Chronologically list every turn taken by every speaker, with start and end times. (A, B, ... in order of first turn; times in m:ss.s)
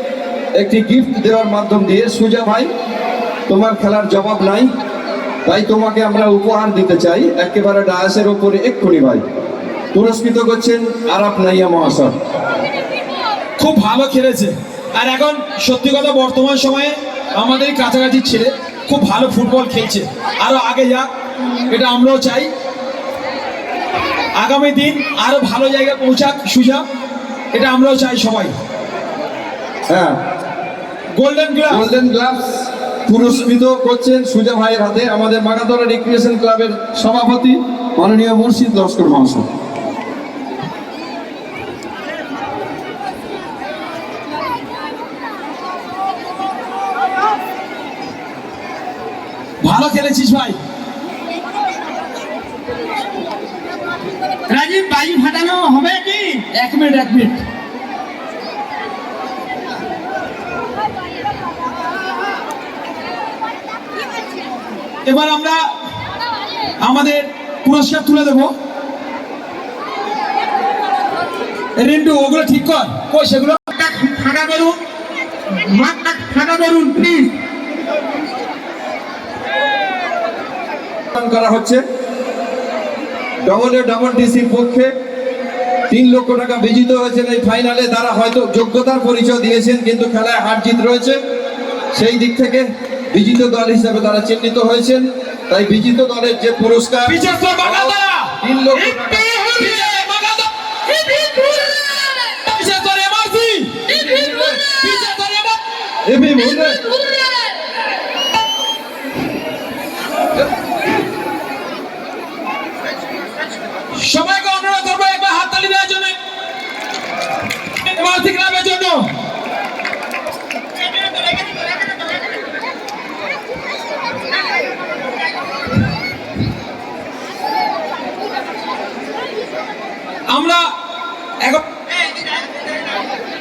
0:00.6-0:02.7 A
0:03.5-0:04.7 A
0:05.4-0:09.2 A
0:09.9-0:12.1 A
0:13.6-0:21.1 B
0:21.7-0:22.5 B
0:24.4-0:26.8 B
0:27.5-0:28.5 B
0:29.9-0:30.2 A
0:31.1-0:31.9 B
0:31.7-0:39.4 A
0:49.6-0:50.6 B
0:54.5-0:56.6 C
0:56.6-0:57.4 B
1:05.0-1:05.7 B
1:06.8-1:08.5 B
1:11.8-1:13.6 B
1:13.7-1:14.8 C
1:15.5-1:17.3 C
1:21.1-1:21.8 A
1:23.4-1:24.9 A
1:25.9-1:31.2 A
1:31.9-1:39.4 A
1:37.0-1:38.3 B
1:38.9-1:41.6 B
1:42.2-1:45.6 B
1:44.0-1:44.6 A
1:46.0-1:46.8 A
1:53.9-1:56.2 B
1:57.8-1:59.1 B
2:10.3-2:10.7 B